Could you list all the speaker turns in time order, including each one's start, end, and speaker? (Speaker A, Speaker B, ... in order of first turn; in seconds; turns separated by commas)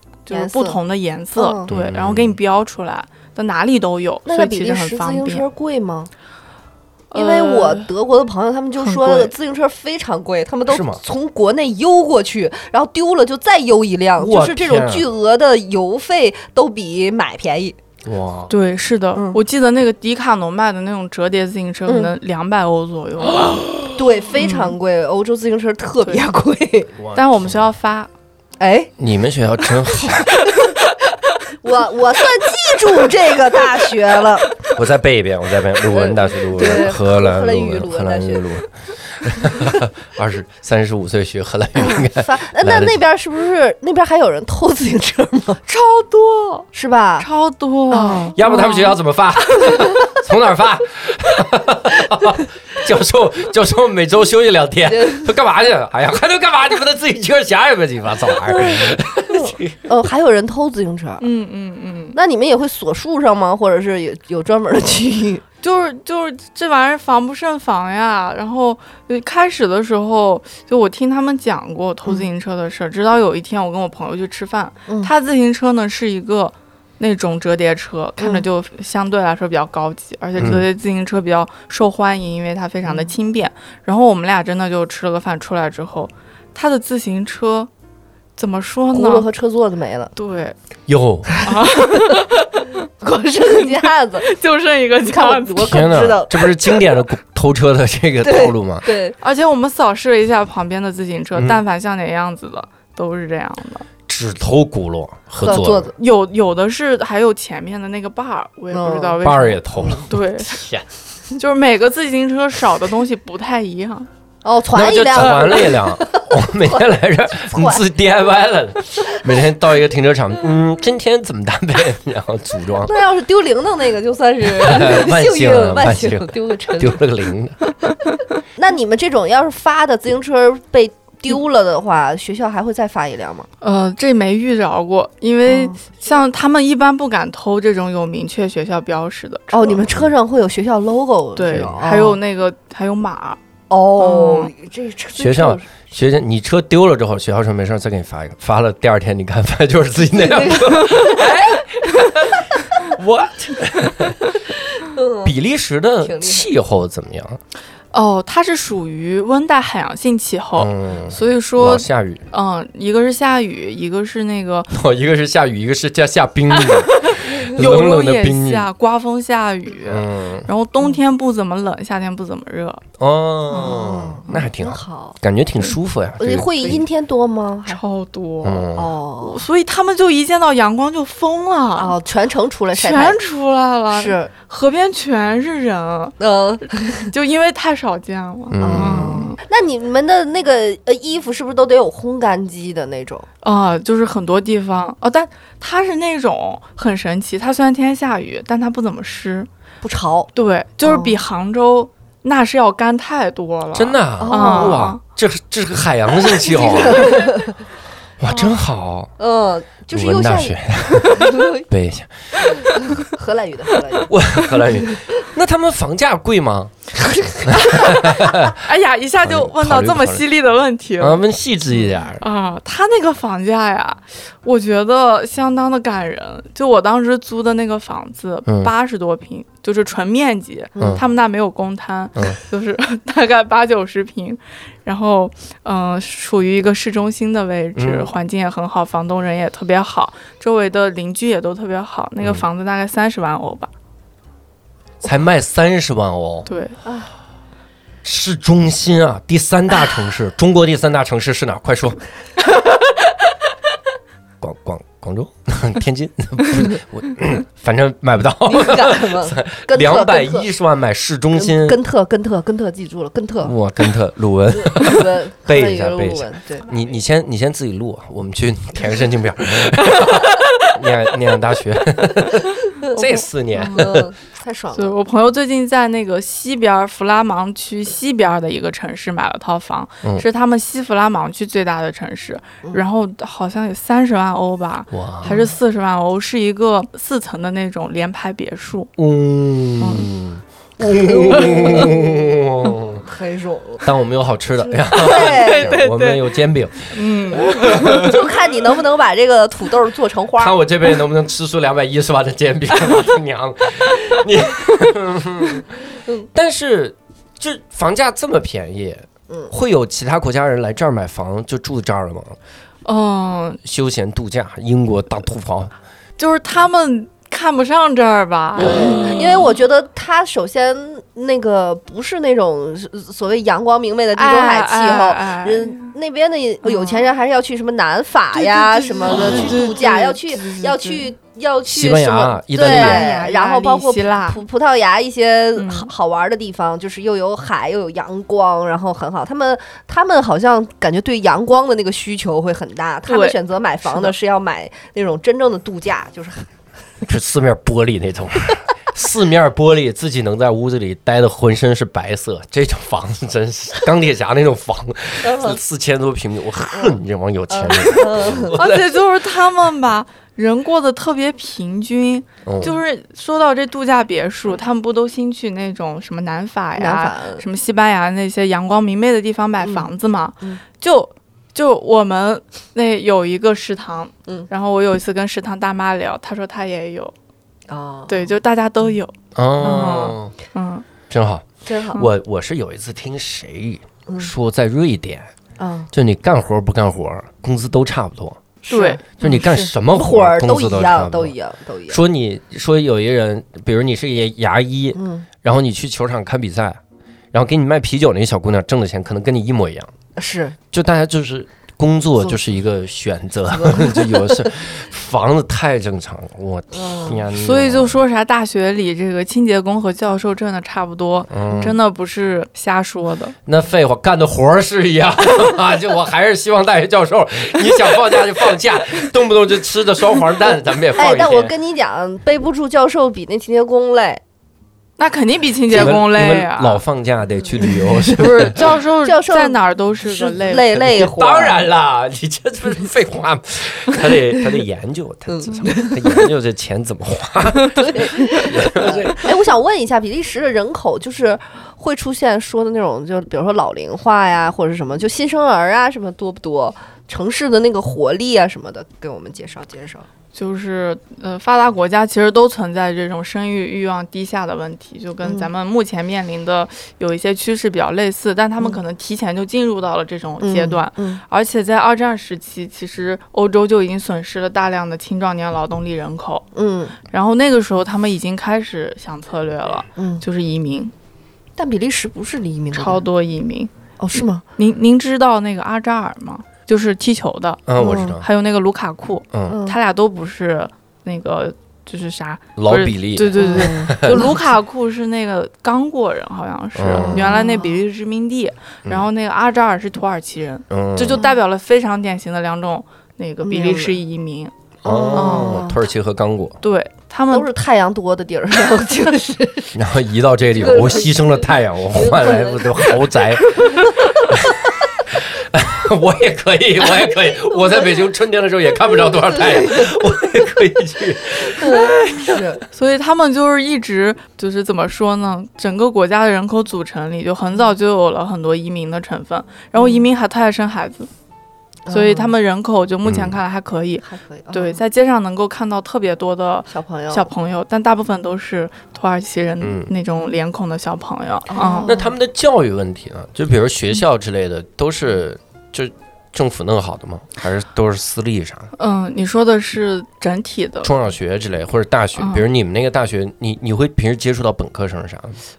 Speaker A: 0.2-5.4, Speaker B: 0.3-0.8, Speaker B: 1.4-1.7, Speaker C: 1.7-2.4, Speaker B: 4.2-6.1, Speaker A: 7.1-7.9, Speaker B: 7.1-17.8, Speaker A: 8.8-9.3, Speaker C: 10.7-11.0, Speaker C: 14.2-15.1, Speaker C: 18.0-18.5, Speaker A: 18.5-23.6, Speaker B: 21.9-22.1, Speaker C: 23.3-24.0, Speaker B: 23.9-26.9, Speaker A: 24.4-24.7, Speaker C: 27.0-27.7, Speaker A: 27.1-28.1, Speaker B: 28.6-28.9, Speaker C: 29.0-30.6, Speaker B: 31.5-34.5, Speaker C: 34.7-43.0, Speaker B: 35.9-38.5, Speaker B: 39.4-39.8, Speaker B: 41.8-45.6, Speaker A: 45.6-46.7, Speaker B: 46.7-47.3, Speaker A: 47.2-48.9, Speaker B: 47.9-48.7, Speaker C: 48.4-59.9, Speaker B: 54.9-55.3, Speaker B: 58.5-61.2, Speaker A: 61.2-62.2, Speaker B: 62.1-65.4, Speaker A: 65.6-87.7, Speaker B: 78.2-78.4, Speaker C: 80.4-80.6, Speaker A: 88.4-89.3, Speaker B: 88.9-90.1, Speaker A: 90.1-90.5, Speaker C: 90.9-91.4, Speaker A: 91.4-92.8, Speaker B: 91.7-92.1, Speaker B: 93.0-94.2, Speaker A: 93.4-95.9, Speaker B: 95.0-97.0, Speaker C: 95.6-98.9, Speaker B: 98.2-99.2, Speaker A: 99.2-103.9, Speaker C: 101.3-101.6, Speaker C: 104.1-105.9, Speaker B: 105.4-105.9, Speaker A: 106.0-110.6, Speaker B: 108.7-109.2, Speaker C: 109.2-110.8, Speaker B: 109.8-110.0, Speaker A: 111.3-114.1, Speaker B: 114.4-117.8, Speaker C: 114.7-122.9, Speaker A: 115.2-115.7, Speaker B: 122.8-127.0, Speaker C: 124.5-127.6, Speaker B: 128.6-133.5, Speaker A: 133.6-139.9, Speaker B: 135.4-135.8, Speaker B: 139.5-142.2, Speaker A: 141.3-143.4, Speaker B: 143.7-145.9, Speaker A: 144.0-144.5, Speaker C: 145.2-154.3, Speaker B: 150.1-151.2, Speaker B: 154.8-155.3, Speaker C: 155.2-157.4, Speaker B: 156.0-156.5, Speaker A: 157.9-164.7, Speaker C: 160.6-162.2, Speaker C: 164.7-168.7, Speaker A: 166.6-172.8, Speaker C: 169.8-170.5, Speaker C: 173.0-176.8, Speaker A: 173.5-174.5, Speaker B: 173.5-175.2, Speaker B: 176.2-177.8, Speaker A: 177.7-178.7, Speaker C: 178.4-178.9, Speaker B: 178.8-179.4, Speaker A: 179.2-181.9, Speaker B: 181.8-183.2, Speaker A: 182.7-189.4, Speaker B: 183.9-184.3, Speaker B: 186.2-187.1, Speaker C: 188.5-189.2, Speaker B: 188.6-193.3, Speaker A: 193.4-199.5, Speaker B: 199.8-200.3, Speaker A: 200.3-205.0, Speaker B: 200.8-201.2, Speaker C: 203.7-207.3, Speaker B: 204.2-204.9, Speaker B: 206.4-207.5, Speaker A: 206.5-207.3, Speaker C: 208.2-209.1, Speaker A: 208.3-208.6, Speaker B: 209.2-211.6, Speaker C: 209.9-212.8, Speaker B: 212.5-214.1, Speaker C: 214.1-216.7, Speaker B: 217.0-217.7, Speaker C: 217.5-218.6, Speaker A: 217.6-221.2, Speaker C: 219.2-220.2, Speaker C: 221.0-222.2, Speaker A: 222.2-243.7, Speaker C: 228.4-228.7, Speaker B: 230.8-231.0, Speaker C: 230.8-231.0, Speaker C: 237.8-238.1, Speaker C: 245.0-246.5, Speaker A: 246.4-246.8, Speaker B: 246.8-247.1, Speaker C: 248.0-252.0, Speaker C: 254.4-261.8, Speaker B: 258.5-260.5, Speaker B: 261.3-263.5, Speaker C: 263.4-274.1, Speaker B: 264.5-266.7, Speaker A: 272.9-273.9, Speaker B: 273.7-274.9, Speaker A: 274.7-288.9, Speaker C: 284.9-285.4, Speaker B: 285.2-285.5, Speaker C: 289.0-293.1, Speaker A: 289.8-290.1, Speaker B: 290.9-292.3, Speaker A: 291.3-291.9, Speaker B: 293.0-293.9, Speaker C: 293.8-298.2, Speaker B: 294.6-295.8, Speaker A: 295.0-296.2, Speaker A: 296.9-298.0, Speaker B: 297.6-300.5, Speaker C: 300.4-312.4, Speaker A: 312.8-313.6, Speaker C: 313.6-315.7, Speaker A: 316.2-319.4, Speaker B: 318.6-346.5, Speaker C: 318.6-319.1, Speaker A: 324.1-325.9, Speaker A: 326.6-327.1, Speaker A: 328.3-331.1, Speaker C: 329.2-329.6, Speaker C: 331.6-333.1, Speaker A: 332.6-334.4, Speaker A: 335.5-335.9, Speaker A: 343.1-343.4, Speaker C: 347.0-359.0, Speaker B: 355.2-355.6, Speaker B: 356.7-357.0, Speaker B: 357.5-358.5, Speaker A: 358.5-377.1, Speaker C: 362.4-362.8, Speaker B: 366.8-367.4, Speaker B: 369.6-370.6, Speaker B: 377.7-378.3, Speaker A: 378.1-380.8, Speaker C: 379.3-380.3, Speaker C: 381.1-385.3, Speaker B: 381.6-382.0, Speaker B: 385.6-385.9, Speaker C: 385.9-388.5, Speaker B: 388.6-392.0, Speaker A: 388.7-389.1, Speaker C: 389.2-391.3, Speaker C: 391.9-396.8, Speaker B: 394.9-395.2, Speaker C: 397.3-399.9, Speaker B: 400.1-400.6, Speaker C: 400.7-408.0, Speaker B: 403.5-404.5, Speaker B: 406.7-407.2, Speaker A: 407.3-413.3, Speaker C: 411.3-411.8, Speaker B: 411.5-411.8, Speaker C: 413.5-421.5, Speaker B: 420.9-424.2, Speaker A: 425.0-426.8, Speaker C: 425.7-428.7, Speaker B: 427.6-427.9, Speaker A: 428.1-430.8, Speaker B: 429.0-431.6, Speaker C: 430.8-439.4, Speaker B: 435.3-436.2, Speaker B: 437.7-450.1, Speaker A: 450.3-466.4, Speaker B: 455.2-455.5, Speaker B: 460.4-461.2, Speaker B: 466.5-467.0, Speaker A: 467.1-470.9, Speaker B: 469.9-470.2, Speaker B: 471.6-473.0, Speaker A: 472.7-473.7, Speaker B: 474.0-474.4, Speaker A: 474.6-494.5, Speaker C: 477.7-478.3, Speaker B: 477.8-478.2, Speaker C: 479.3-479.6, Speaker B: 479.5-479.8, Speaker C: 482.6-484.3, Speaker B: 483.4-484.4, Speaker C: 486.7-487.4, Speaker B: 486.9-487.8, Speaker C: 490.7-491.2, Speaker B: 493.4-494.0, Speaker B: 494.8-495.8, Speaker C: 494.8-496.6, Speaker A: 495.1-495.6, Speaker A: 496.6-497.5, Speaker B: 497.3-499.8, Speaker C: 499.7-512.5, Speaker B: 500.5-504.8, Speaker B: 506.8-507.9, Speaker B: 508.9-510.0, Speaker B: 511.5-512.6, Speaker A: 512.7-521.1, Speaker B: 519.7-520.1, Speaker B: 521.9-522.3, Speaker A: 521.9-531.9, Speaker C: 523.0-523.4, Speaker B: 524.0-524.8, Speaker B: 526.7-527.3, Speaker C: 529.6-529.9, Speaker B: 531.5-532.1, Speaker C: 531.9-538.7, Speaker A: 538.8-540.9, Speaker C: 540.8-545.4, Speaker A: 542.2-542.4